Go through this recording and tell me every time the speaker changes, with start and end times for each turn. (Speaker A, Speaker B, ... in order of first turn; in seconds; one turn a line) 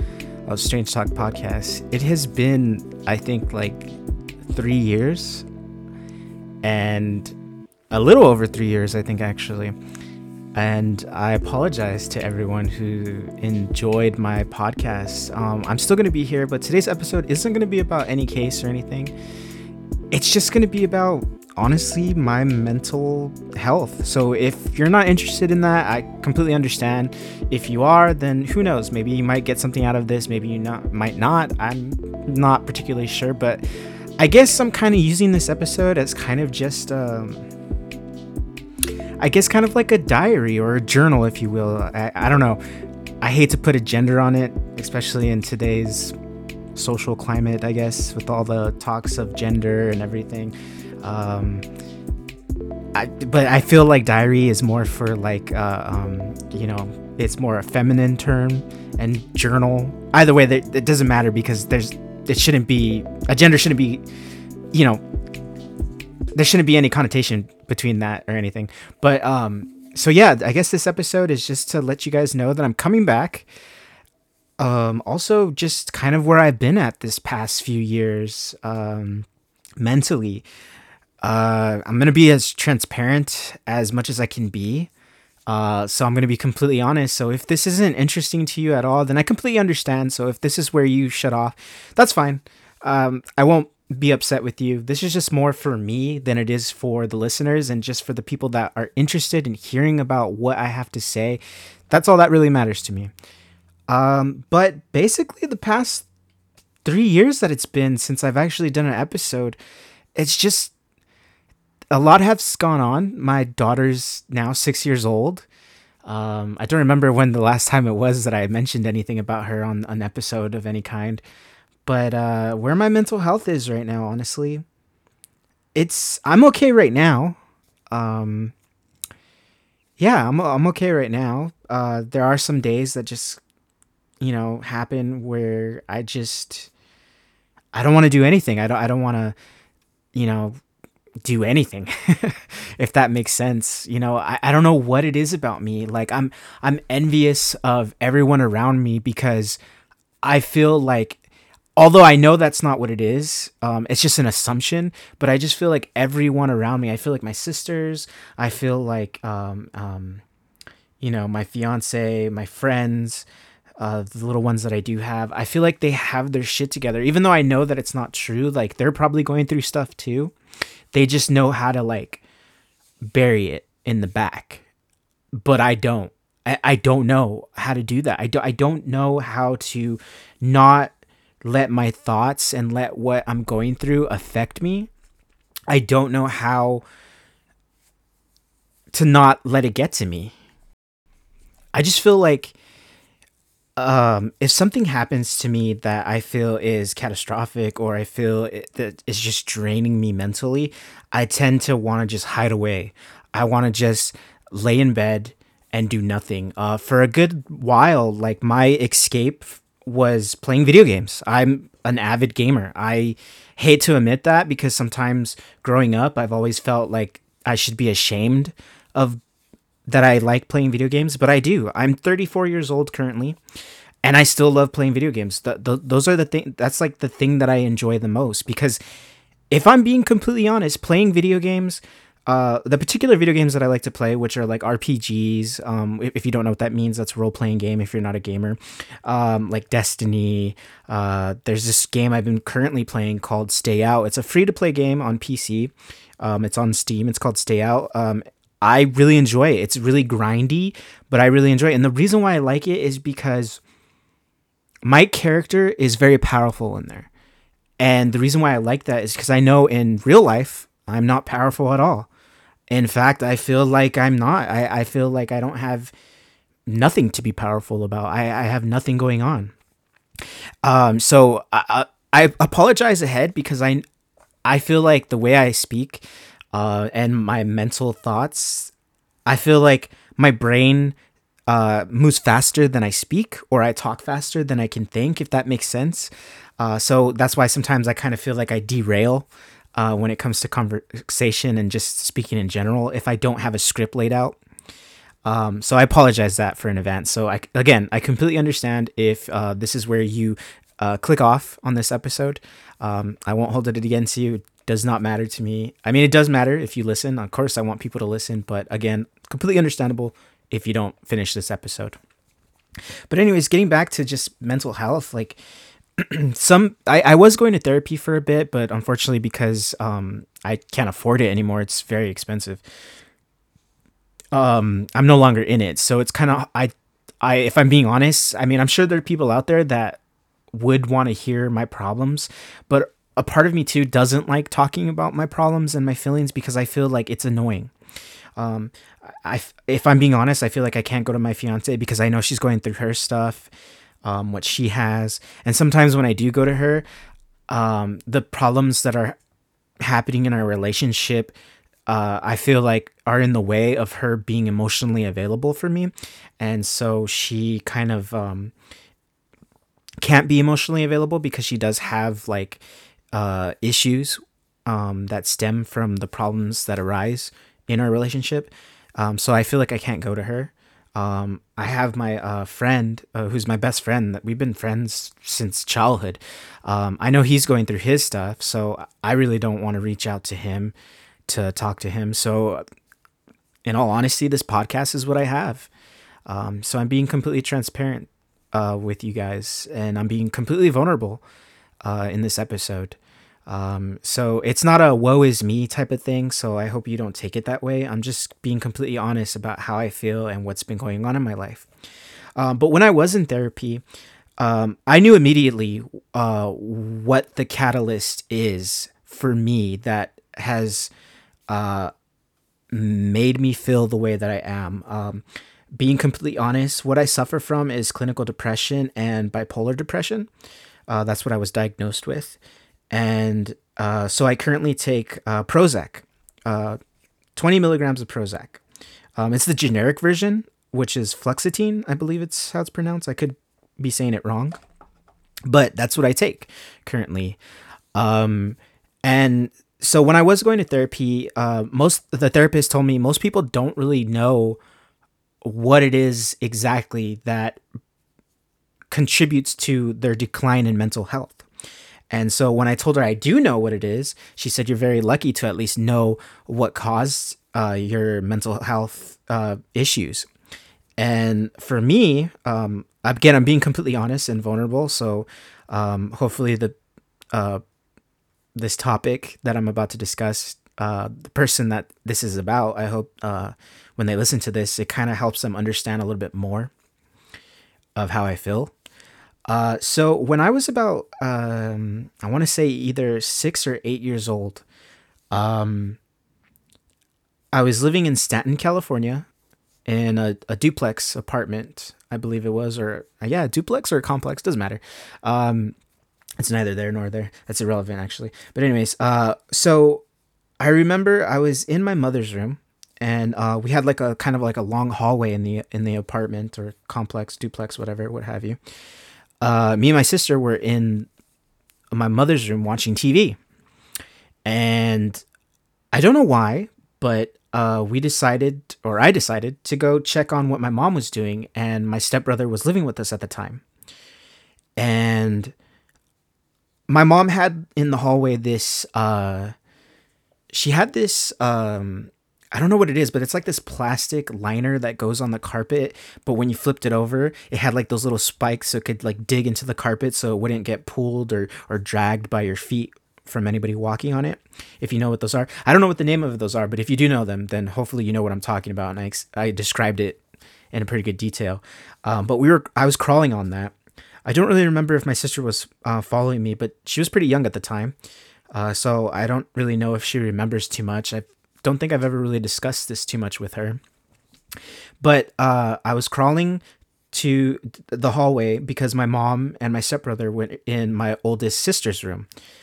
Speaker A: 0.5-3.9
Speaker A: 4.5-5.5
Speaker A: 6.6-7.3
Speaker A: 7.9-9.7
Speaker A: 10.5-19.1
Speaker A: 20.1-33.6
Speaker A: 34.2-37.5
Speaker A: 39.2-42.6
Speaker A: 43.2-46.1
Speaker A: 46.7-51.6
Speaker A: 52.9-64.0
Speaker A: 64.7-65.0
Speaker A: 66.3-73.5
Speaker A: 74.6-79.3
Speaker A: 79.8-80.5
Speaker A: 81.2-84.9
Speaker A: 85.5-103.1
Speaker A: 103.9-106.1
Speaker A: 106.8-109.6
Speaker A: 110.2-110.7
Speaker A: 111.9-115.5
Speaker A: 116.0-121.2
Speaker A: 121.8-124.6
Speaker A: 125.7-127.4
Speaker A: 127.9-128.5
Speaker A: 130.0-133.4
Speaker A: 134.2-136.7
Speaker A: 137.7-139.4
Speaker A: 140.1-140.6
Speaker A: 141.2-149.6
Speaker A: 150.2-151.2
Speaker A: 151.8-160.2
Speaker A: 161.0-163.2
Speaker A: 163.8-170.3
Speaker A: 170.9-172.2
Speaker A: 173.1-174.6
Speaker A: 175.4-180.9
Speaker A: 181.4-184.9
Speaker A: 185.7-186.8
Speaker A: 188.9-190.3
Speaker A: 191.7-192.6
Speaker A: 193.8-219.2
Speaker A: 219.9-223.4
Speaker A: 224.0-228.8
Speaker A: 229.5-253.6
Speaker A: 254.8-257.1
Speaker A: 257.8-262.1
Speaker A: 262.7-265.9
Speaker A: 266.7-269.5
Speaker A: 270.6-273.8
Speaker A: 274.4-278.7
Speaker A: 279.3-280.9
Speaker A: 281.5-294.4
Speaker A: 295.2-312.0
Speaker A: 313.1-315.4
Speaker A: 316.0-322.6
Speaker A: 324.3-330.0
Speaker A: 330.5-337.7
Speaker A: 338.4-338.7
Speaker A: 339.2-343.5
Speaker A: 344.0-346.8
Speaker A: 347.5-349.1
Speaker A: 349.8-351.4
Speaker A: 351.9-358.5
Speaker A: 360.0-362.6
Speaker A: 363.1-380.7
Speaker A: 381.3-382.6
Speaker A: 383.6-385.7
Speaker A: 386.2-391.2
Speaker A: 391.8-401.7
Speaker A: 402.4-403.8
Speaker A: 404.4-410.9
Speaker A: 411.5-411.9
Speaker A: 412.7-420.3
Speaker A: 420.9-422.4
Speaker A: 422.9-426.8
Speaker A: 427.4-428.6
Speaker A: 429.2-434.6
Speaker A: 435.5-437.4
Speaker A: 437.9-444.6
Speaker A: 445.4-447.6
Speaker A: 448.9-451.4
Speaker A: 452.1-460.3
Speaker A: 461.0-466.7
Speaker A: 467.3-467.6
Speaker A: 468.6-476.7
Speaker A: 477.9-478.7
Speaker A: 479.5-484.6
Speaker A: 485.3-486.0
Speaker A: 487.5-489.3
Speaker A: 489.9-495.8
Speaker A: 496.4-500.0
Speaker A: 500.6-508.6
Speaker A: 509.4-511.1
Speaker A: 511.9-513.4
Speaker A: 514.5-515.2
Speaker A: 515.9-523.6
Speaker A: 524.8-525.5
Speaker A: 526.9-529.5
Speaker A: 530.5-550.2
Speaker A: 550.7-553.7
Speaker A: 554.2-557.9
Speaker A: 558.5-563.8
Speaker A: 565.0-566.6
Speaker A: 567.1-572.3